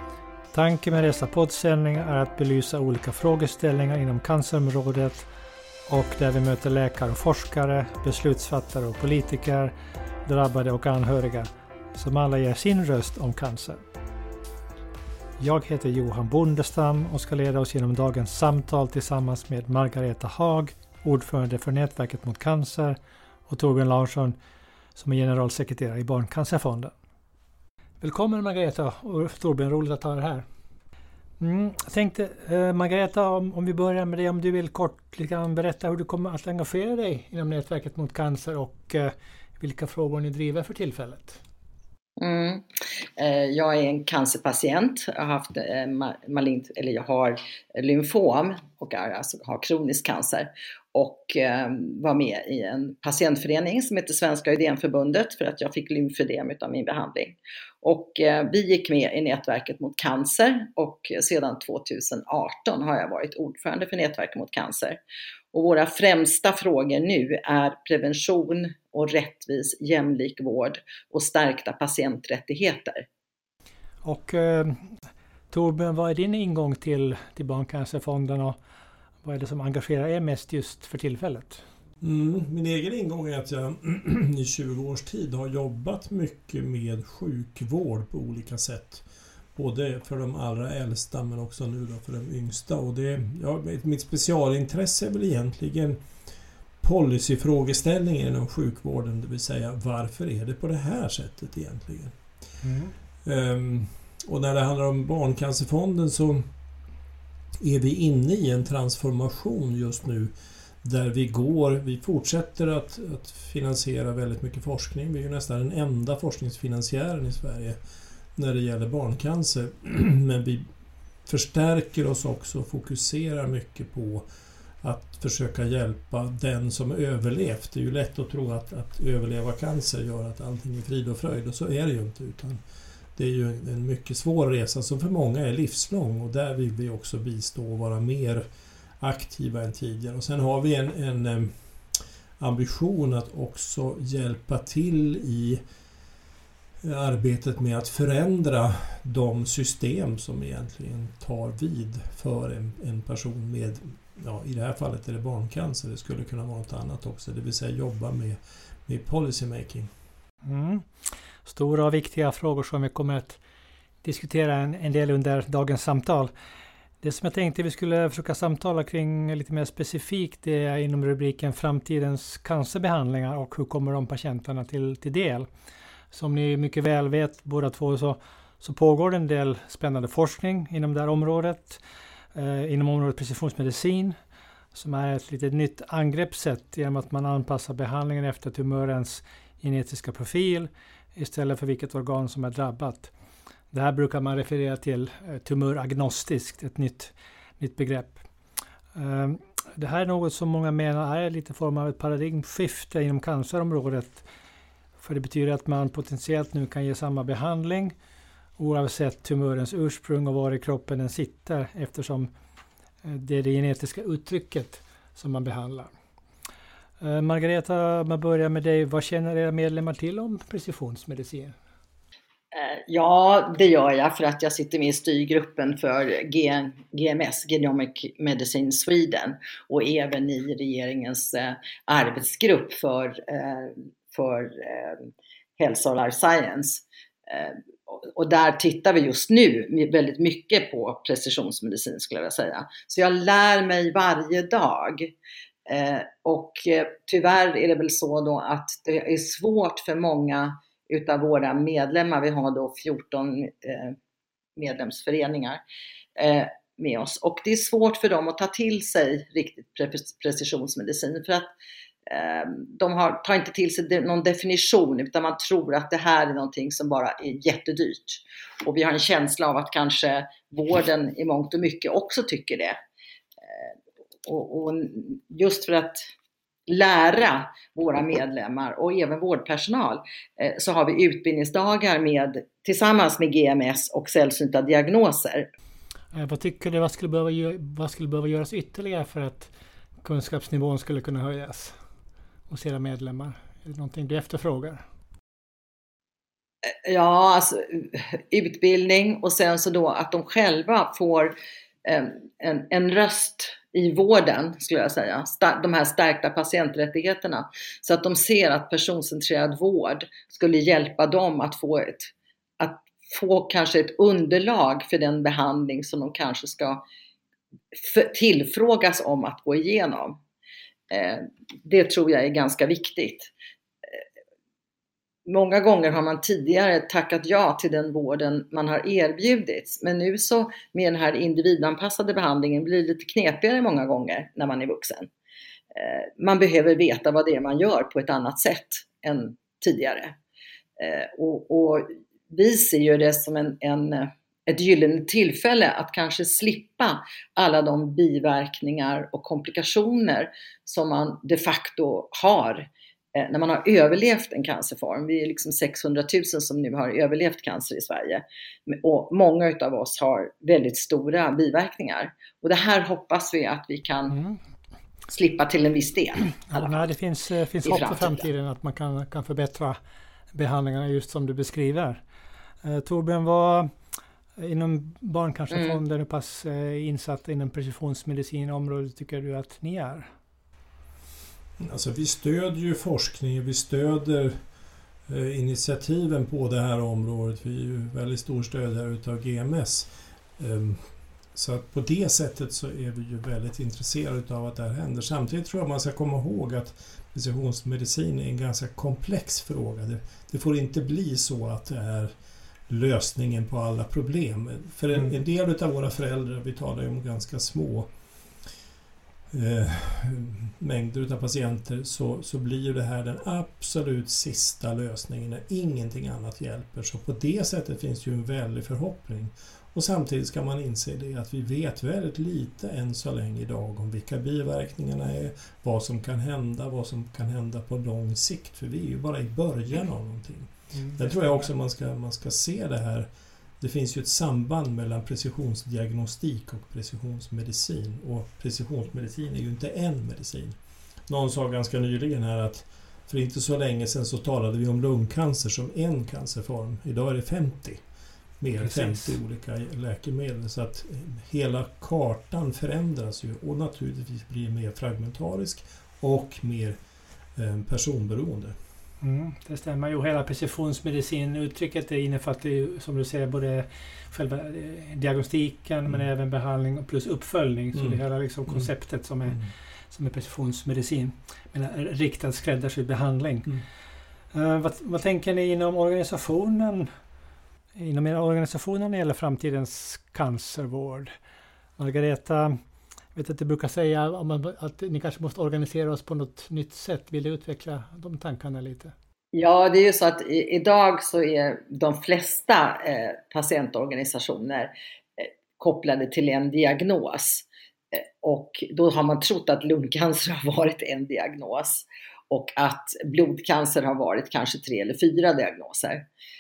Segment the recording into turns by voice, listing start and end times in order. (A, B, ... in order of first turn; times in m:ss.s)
0:00.5-0:05.3 A
0:05.9-0:13.8 A
0:15.4-0:24.4 A
0:25.0-0:26.9 A
0:28.0-0:30.4 A
0:31.4-0:41.4 A
0:42.2-0:42.6 B
0:43.2-1:05.0 B
1:05.5-1:13.0 B
1:14.0-1:15.0 A
1:15.5-1:18.6 A
1:19.2-1:21.6 A
1:22.0-1:36.0 C
1:36.8-1:42.2 C
1:42.6-1:42.9 A
1:43.2-1:46.5 C
1:47.6-1:57.8 C
1:58.3-2:00.7 C
2:01.2-2:04.2 C
2:04.8-2:12.6 C
2:13.2-2:18.4 C
2:19.0-2:25.6 C
2:26.8-2:39.9 C
2:40.4-2:43.4 A
2:44.0-2:46.3 A
2:47.0-2:55.5 A
2:56.1-3:01.8 A
3:02.3-3:04.2 A
3:04.7-3:13.1 A
3:13.7-3:18.3 A
3:18.9-3:24.2 A
3:25.0-3:27.9 A
3:28.6-3:32.3 A
3:33.0-3:35.9 A
3:37.0-3:41.6 A
3:42.5-4:05.1 B
4:05.7-4:14.0 B
4:14.6-4:15.6 B
4:16.2-4:21.5 B
4:22.1-4:32.8 B
4:34.2-4:36.1 B
4:36.7-4:45.5 B
4:46.1-4:51.8 A
4:52.5-4:54.8 A
4:56.7-5:16.8 B
5:17.7-5:20.2 B
5:20.9-5:23.3 B
5:25.2-5:35.1 B
5:35.7-5:40.1 B
5:40.8-6:04.2 B
6:04.1-6:04.4 A
6:05.1-6:06.9 B
6:06.5-6:09.8 A
6:07.6-6:08.2 B
6:10.3-6:12.0 A
6:12.6-6:13.7 A
6:14.4-6:20.1 A
6:15.5-6:15.8 B
6:21.6-6:24.4 C
6:25.1-6:42.1 C
6:42.7-6:47.9 C
6:49.3-7:13.1 C
7:10.7-7:11.4 A
7:13.6-7:27.8 C
7:28.4-7:36.8 C
7:28.6-7:29.1 A
7:37.4-7:38.5 C
7:39.0-7:53.6 A
7:47.7-7:48.7 C
7:49.2-7:49.5 C
7:54.3-7:56.9 A
7:57.8-8:01.1 A
8:01.8-8:02.6 A
8:03.1-8:08.9 A
8:09.3-8:26.0 B